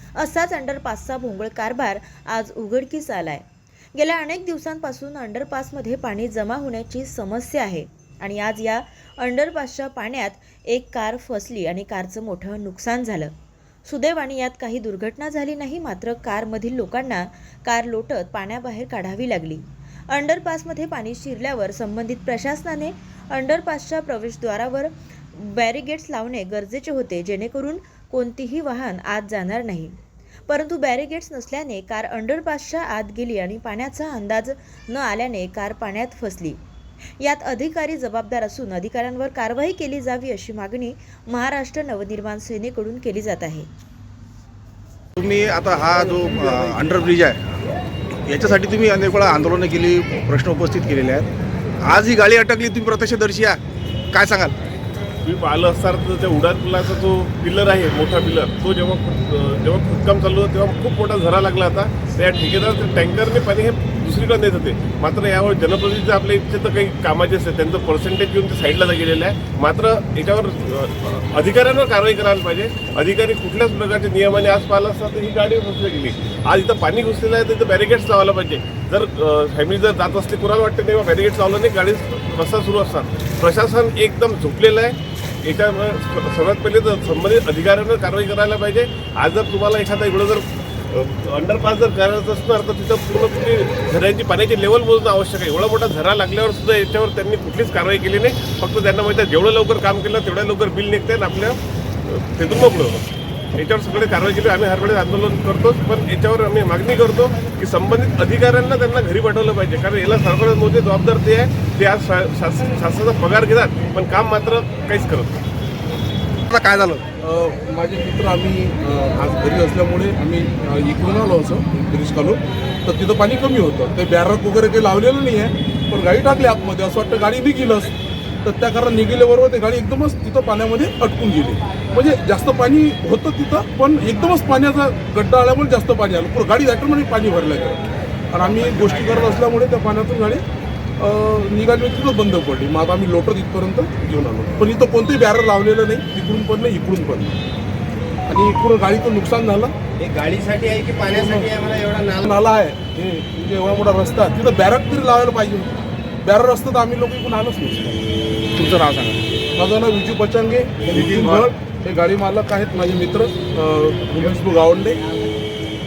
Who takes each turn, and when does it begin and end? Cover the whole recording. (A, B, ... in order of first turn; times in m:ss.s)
0:00.2-0:13.3 A
0:13.8-0:36.6 A
0:37.2-0:43.7 A
0:45.2-0:47.6 B
0:48.3-0:51.3 B
0:51.8-0:53.6 B
0:54.1-0:54.5 B
0:55.2-1:43.0 C
1:43.6-1:55.4 C
1:56.5-1:57.0 B
1:57.2-2:07.9 D
2:08.4-2:20.4 D
2:21.0-2:27.4 D
2:28.3-2:29.7 D
2:30.0-2:32.2 E
2:32.2-2:38.0 D
2:38.5-2:39.2 B
2:39.5-2:45.0 D
2:40.9-2:41.4 B